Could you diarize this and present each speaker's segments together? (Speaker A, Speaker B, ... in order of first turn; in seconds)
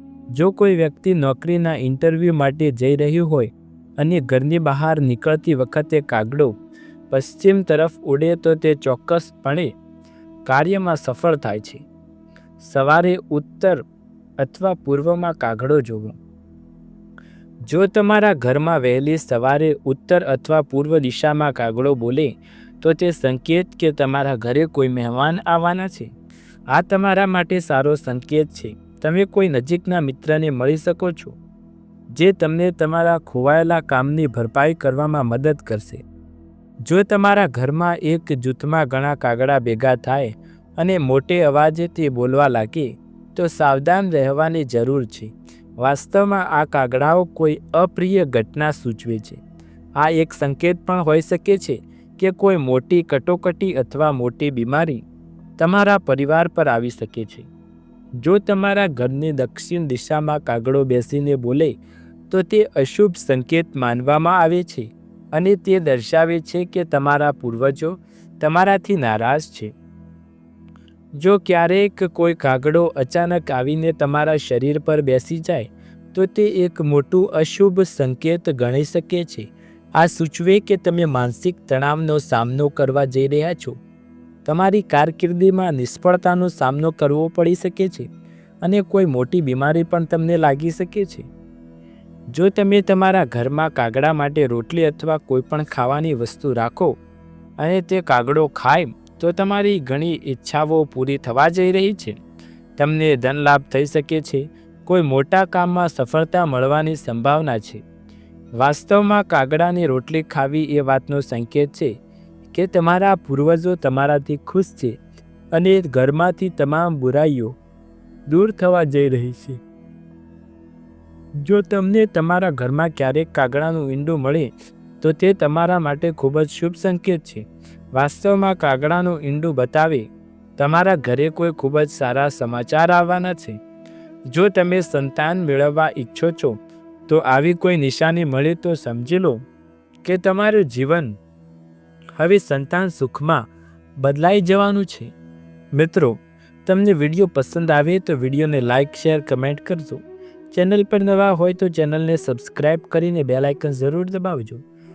Speaker A: 0.3-6.5, 7.1-9.7, 10.4-11.8, 12.6-13.8, 14.4-16.1, 17.7-26.1, 26.7-31.4, 32.1-36.0, 36.8-49.4, 50.0-55.0, 55.6-57.5, 58.2-61.7, 62.3-69.7, 71.2-83.8, 84.4-88.1, 88.6-91.3, 92.3-97.0, 97.6-102.2, 102.8-107.8, 108.5-111.9, 112.5-114.9, 115.5-117.5, 118.3-119.6, 121.4-124.5, 125.0-127.4, 127.9-133.6, 134.3-136.5, 137.1-139.4, 140.0-141.2, 142.2-143.4, 144.0-145.1, 145.7-154.6